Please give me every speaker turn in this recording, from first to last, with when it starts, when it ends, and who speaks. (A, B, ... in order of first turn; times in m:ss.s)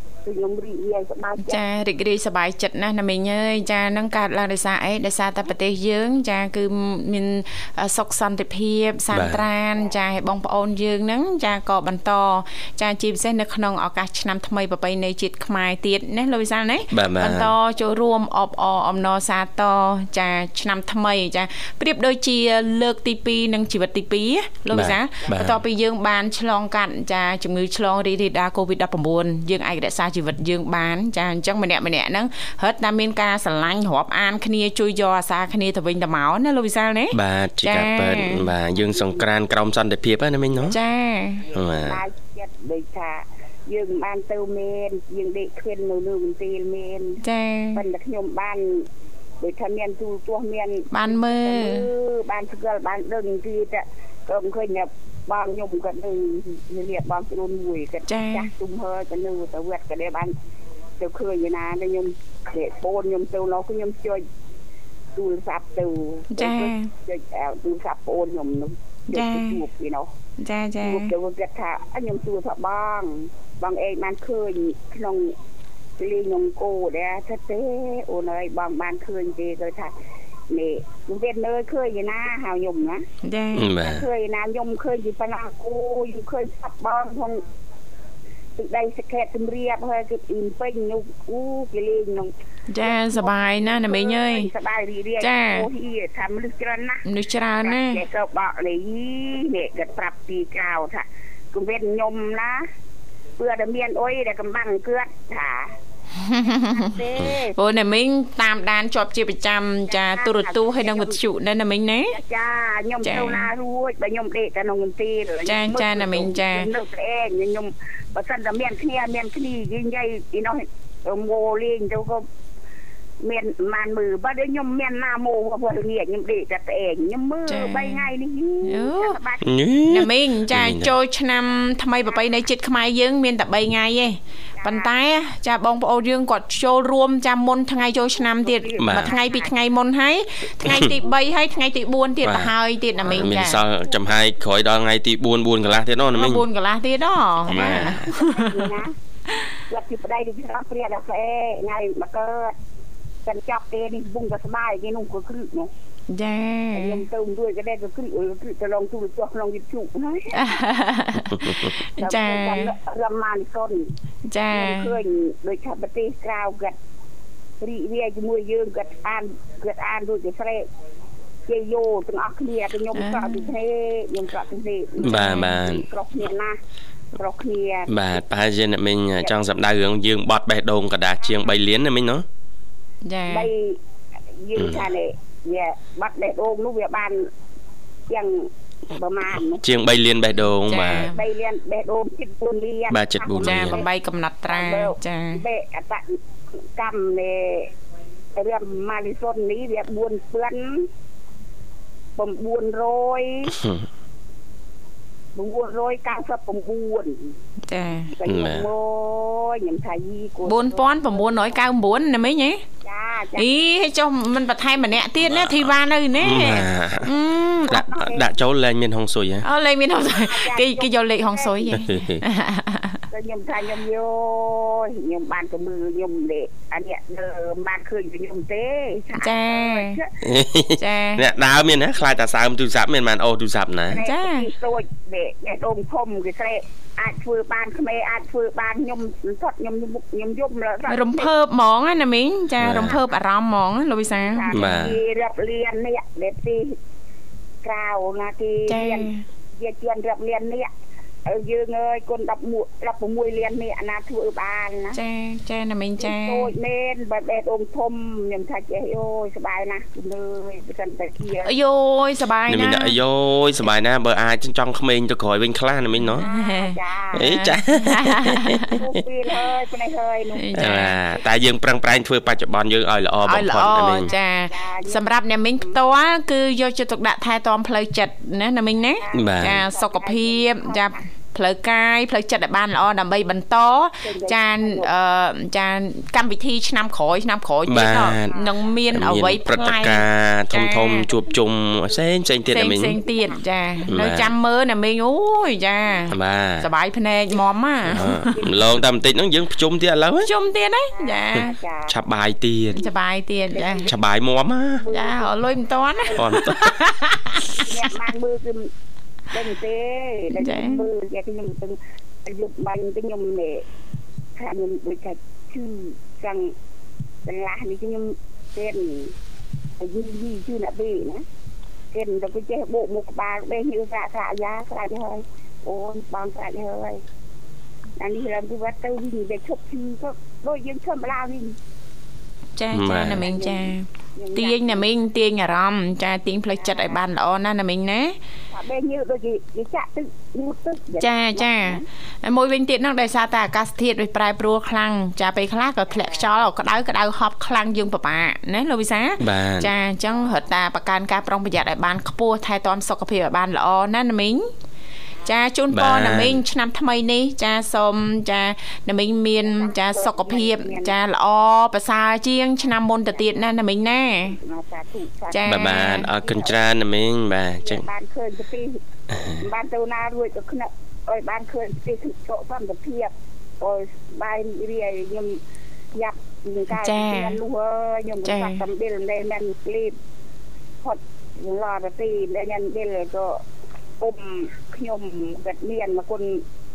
0:00.2-0:01.6 A
0:01.4-0:38.5 B
0:09.1-0:09.4 C
0:16.9-0:17.5 C
0:24.7-0:25.6 C
0:37.1-0:40.8 C
0:38.8-0:39.2 A
0:40.7-0:41.5 B
0:41.5-0:47.2 A
0:41.5-0:42.0 C
0:47.2-0:47.8 B
0:47.8-0:48.9 A
0:49.4-1:00.4 A
0:50.9-0:51.9 B
0:58.1-0:58.5 B
1:01.0-1:04.3 A
1:05.2-1:10.1 A
1:06.3-1:06.9 B
1:09.1-1:09.6 B
1:10.4-1:11.1 B
1:10.8-1:15.4 A
1:16.0-1:19.9 A
1:20.5-1:23.1 A
1:23.2-1:23.7 B
1:23.6-1:24.1 C
1:23.8-1:27.4 A
1:28.6-1:37.0 A
1:32.7-1:34.5 B
1:35.2-1:35.7 B
1:37.0-1:38.0 B
1:37.6-1:42.7 A
1:43.4-1:45.7 A
1:46.2-1:47.0 B
1:46.7-1:47.6 A
1:47.5-1:52.2 B
1:49.9-1:51.2 A
1:52.1-2:02.3 A
1:53.0-1:53.5 B
1:55.5-1:56.7 B
2:03.2-2:09.4 A
2:07.5-2:08.1 B
2:08.6-2:09.2 B
2:09.4-2:10.9 C
2:09.9-2:23.6 B
2:14.6-2:14.9 A
2:18.2-2:19.6 A
2:18.8-2:19.1 C
2:20.6-2:21.0 C
2:22.2-2:22.5 C
2:23.0-2:24.2 A
2:23.0-2:26.5 C
2:26.2-2:28.7 B
2:27.5-2:28.2 C
2:27.5-2:29.0 A
2:29.6-2:32.6 A
2:33.2-2:35.7 A
2:36.1-2:37.0 B
2:36.7-2:40.5 A
2:40.3-2:42.7 B
2:42.0-2:43.9 A
2:44.3-2:45.0 B
2:44.5-2:46.8 A
2:47.6-2:50.7 A
2:51.5-2:56.6 A
2:52.9-2:53.5 B
2:55.0-2:55.6 B
2:55.0-2:55.8 C
2:57.2-2:58.2 A
2:57.9-3:02.2 C
3:03.0-3:03.5 B
3:03.3-3:03.8 A
3:04.4-3:07.3 A
3:04.6-3:04.9 C
3:08.1-3:09.6 A
3:09.6-3:11.1 C
3:10.6-3:11.2 B
3:10.7-3:13.9 A
3:12.9-3:13.8 C
3:13.4-3:15.4 B
3:14.5-3:16.2 A
3:16.8-3:17.7 A
3:18.4-3:20.9 A
3:22.2-3:23.5 A
3:23.5-3:23.8 C
3:25.4-3:27.3 A
3:27.7-3:28.1 B
3:28.1-3:31.6 A
3:28.2-3:28.7 C
3:30.4-3:32.6 B
3:32.8-3:33.5 A
3:33.4-3:37.9 B
3:35.2-3:37.1 C
3:37.7-3:38.3 A
3:37.7-3:39.5 C
3:39.4-3:43.0 B
3:40.0-3:41.8 A
3:41.8-3:42.2 C
3:43.1-3:50.1 A
3:49.2-3:50.0 B
3:50.2-3:54.0 C
3:50.8-3:51.2 B
3:53.9-4:01.3 A
3:54.0-3:54.5 B
4:00.9-4:04.8 B
4:02.6-4:03.0 C
4:04.3-4:06.8 A
4:04.5-4:05.0 C
4:07.6-4:10.7 A
4:08.7-4:09.2 B
4:11.3-4:15.0 A
4:14.9-4:16.5 B
4:16.0-4:21.5 A
4:21.4-4:22.9 B
4:22.5-4:26.2 C
4:26.2-4:28.8 B
4:26.2-4:27.3 A
4:27.1-4:29.0 C
4:28.7-4:31.2 A
4:30.4-4:31.0 B
4:30.6-4:34.1 C
4:33.2-4:51.1 B
4:34.5-4:35.8 A
4:39.0-4:41.0 A
4:39.1-4:39.6 C
4:44.0-4:44.9 A
4:47.7-4:48.4 C
4:48.0-4:48.6 A
4:48.9-4:53.0 C
4:52.5-4:58.3 B
4:52.9-4:53.4 A
4:53.9-4:54.3 C
4:56.1-4:56.7 C
4:57.9-5:00.3 C
4:57.9-4:58.8 A
5:00.2-5:01.5 B
5:01.0-5:02.0 A
5:01.9-5:02.9 C
5:02.7-5:03.9 B
5:03.5-5:04.0 A
5:03.9-5:04.8 C
5:04.8-5:06.5 A
5:04.9-5:07.9 B
5:06.2-5:06.8 C
5:07.5-5:08.7 A
5:09.3-5:13.6 A
5:10.3-5:10.9 B
5:14.4-5:16.5 A
5:17.2-5:19.2 A
5:19.8-5:21.2 A
5:21.9-5:27.0 A
5:28.0-5:31.6 A
5:32.6-5:38.2 B
5:32.7-5:33.3 C
5:33.1-5:34.9 A
5:36.6-5:37.0 A
5:38.5-5:41.8 A
5:41.0-5:54.5 B
5:49.2-5:49.7 C
5:55.2-6:04.4 B
5:55.7-5:56.4 C
5:59.4-6:00.9 A
6:03.1-6:03.4 A
6:04.2-6:06.6 A
6:05.3-6:06.1 B
6:05.4-6:07.8 C
6:07.6-6:08.8 A
6:09.1-6:09.4 C
6:09.4-6:15.4 A
6:15.9-6:20.0 A
6:16.7-6:17.4 B
6:18.2-6:18.7 B
6:20.8-6:23.4 A
6:24.0-6:26.4 A